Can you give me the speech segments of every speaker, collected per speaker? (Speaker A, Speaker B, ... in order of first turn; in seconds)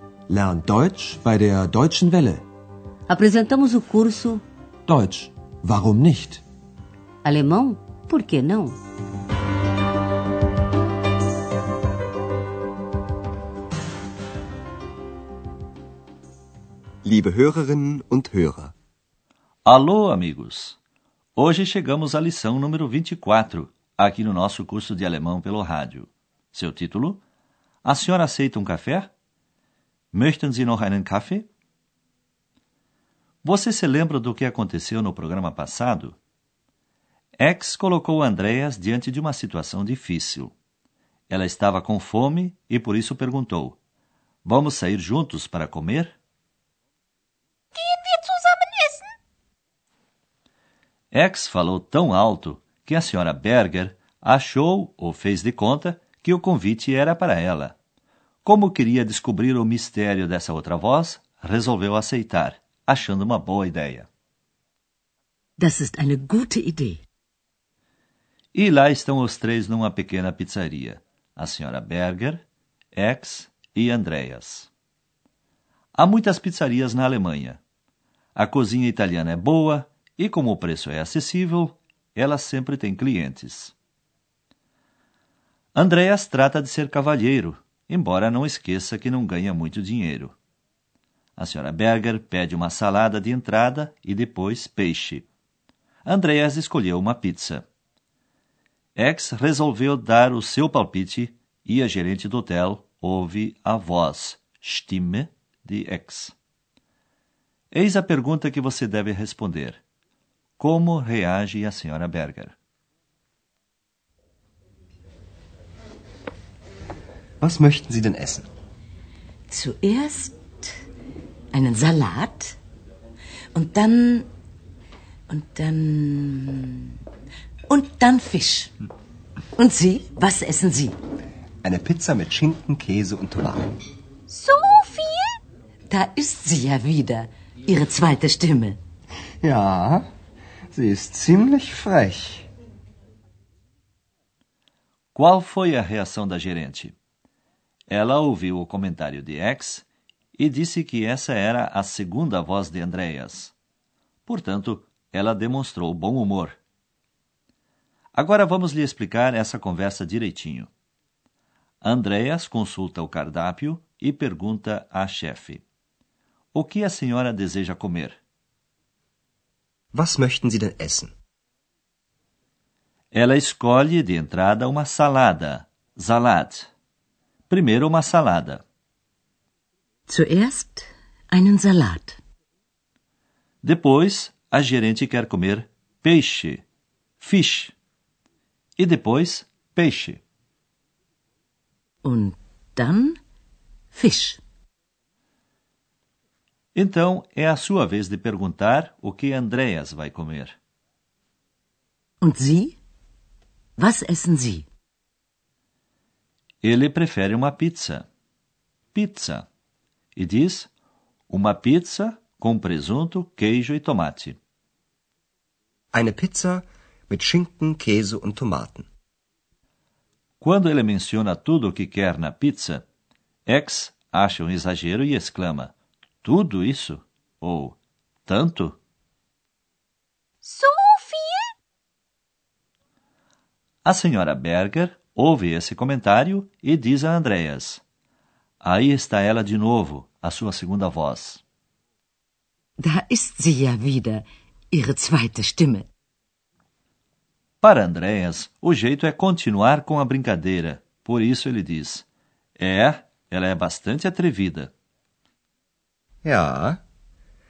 Speaker A: 0.5-2.4, 5.0-5.3
Speaker B: 3.1-4.4, 7.2-8.8
Speaker C: 17.0-18.7, 117.4-118.5, 131.6-133.8, 139.4-140.1, 140.7-142.5, 169.9-171.1, 215.9-218.9, 256.2-256.8
Speaker D: 19.6-20.8, 21.4-27.2, 27.8-29.1, 30.1-31.5, 33.4-36.2, 37.4-40.5, 41.3-43.8, 44.4-46.1, 51.1-57.7, 58.4-64.1, 68.5-74.7, 75.9-77.6, 78.3-83.7, 85.7-90.3, 91.4-95.3, 96.0-97.6, 99.0-106.3, 107.7-109.8, 110.6-112.5, 145.1-146.9, 147.9-153.5, 154.2-156.6, 158.1-160.7, 161.8-165.6, 166.5-168.2, 173.1-176.7, 177.5-178.6, 183.6-186.6, 187.2-187.7, 188.8-190.2, 196.7-200.6, 206.6-208.1, 208.9-209.5, 210.1-210.7, 211.3-214.4, 220.4-222.8, 223.5-228.8, 233.8-237.8, 238.6-241.4, 247.6-252.0, 252.6-254.7
Speaker E: 47.7-49.1, 134.3-135.4, 230.4-231.5
Speaker F: 65.6-67.0, 119.5-120.7, 121.5-122.6, 123.5-124.3, 125.3-127.0, 127.7-128.7, 129.6-131.0, 135.9-138.8, 180.1-182.2, 192.0-193.2, 193.9-194.4, 202.2-202.8, 203.8-204.7, 242.8-245.9